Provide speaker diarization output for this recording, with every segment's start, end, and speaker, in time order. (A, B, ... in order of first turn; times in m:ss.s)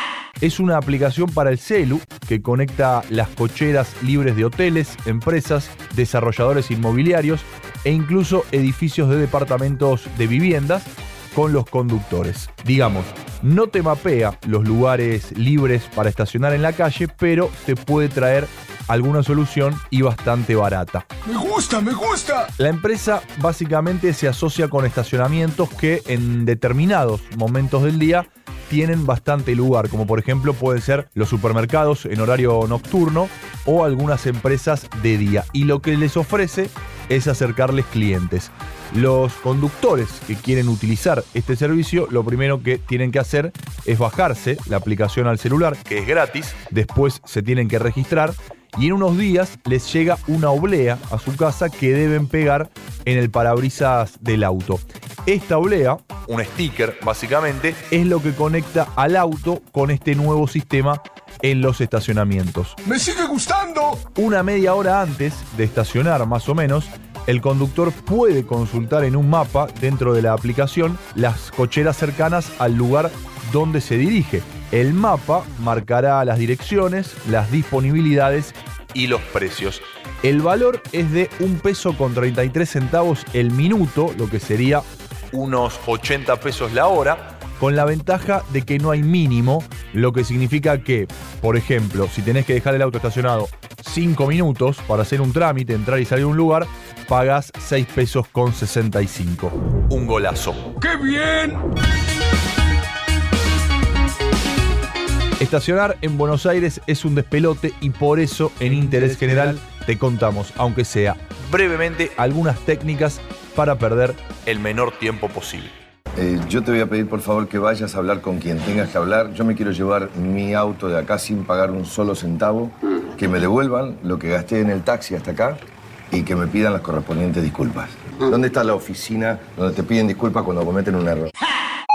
0:00.4-0:21.1 A
0:21.2-0:22.5 B
0:22.6-1:02.8 A
1:02.8-1:04.0 B
1:04.1-1:40.7 A
1:40.8-1:41.6 B
1:45.4-1:55.7 A
1:56.2-2:11.3 C